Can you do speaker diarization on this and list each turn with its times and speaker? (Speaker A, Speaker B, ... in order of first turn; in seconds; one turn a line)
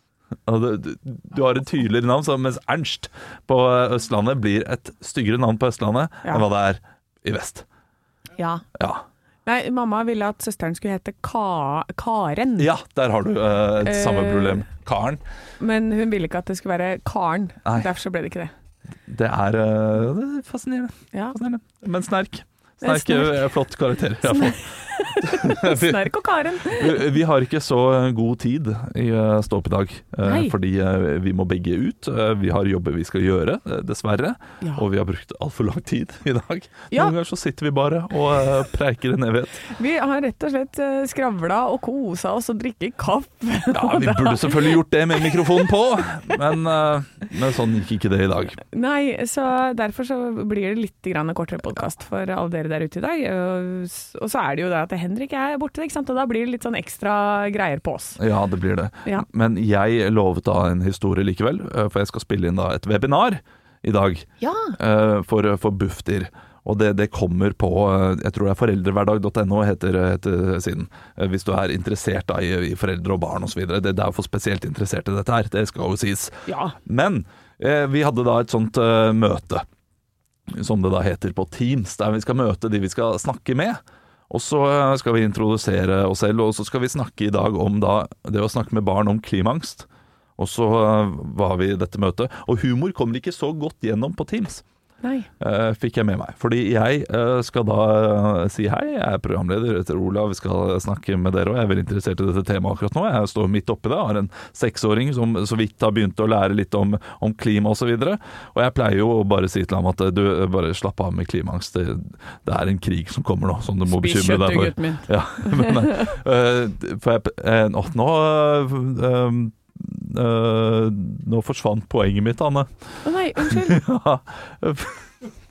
Speaker A: 0.5-7.6
Speaker B: 8.3-8.6
Speaker A: 8.8-9.0
Speaker B: 9.4-12.7
Speaker A: 12.6-15.2
Speaker B: 13.8-14.6
Speaker B: 15.6-18.5
Speaker A: 19.1-24.6
Speaker B: 22.8-23.4
Speaker B: 24.2-27.1
Speaker A: 25.2-26.1
Speaker A: 26.6-39.7
Speaker B: 30.2-30.5
Speaker B: 39.6-45.7
Speaker A: 43.7-48.6
Speaker B: 48.7-58.2
Speaker A: 58.2-79.6
Speaker B: 64.4-64.8
Speaker B: 76.5-76.8
Speaker A: 80.5-89.9
Speaker A: 90.4-94.6
Speaker B: 95.0-95.3
Speaker A: 95.4-122.7
Speaker B: 113.9-116.1
Speaker B: 123.0-123.8
Speaker A: 123.3-125.1